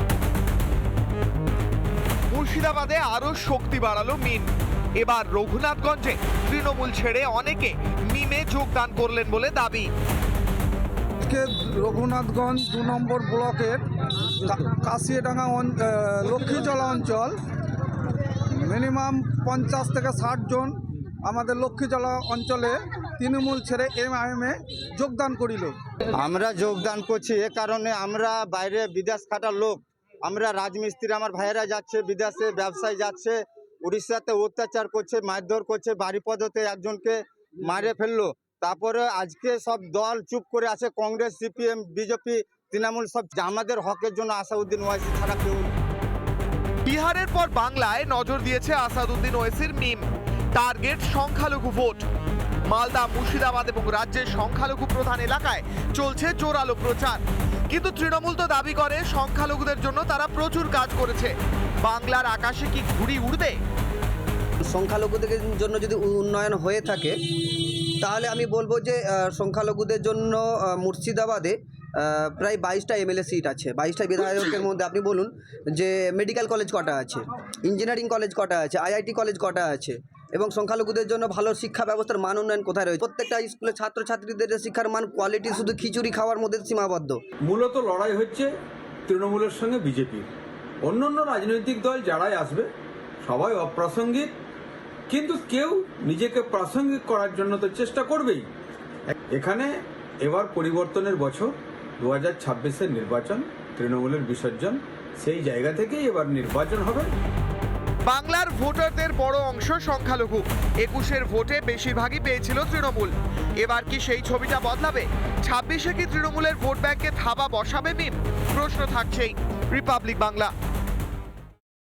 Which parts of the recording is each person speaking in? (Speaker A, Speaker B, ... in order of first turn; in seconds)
Speaker A: 2.3-9.9, 46.9-50.0, 50.5-52.0, 52.7-63.6, 108.1-120.5
Speaker B: 11.2-13.8, 14.4-17.4, 18.6-25.8
Speaker C: 26.2-45.7
Speaker D: 64.7-87.2
Speaker E: 87.4-88.5, 89.1-90.3, 90.8-92.7, 93.2-94.3, 95.1-98.5, 99.3-107.1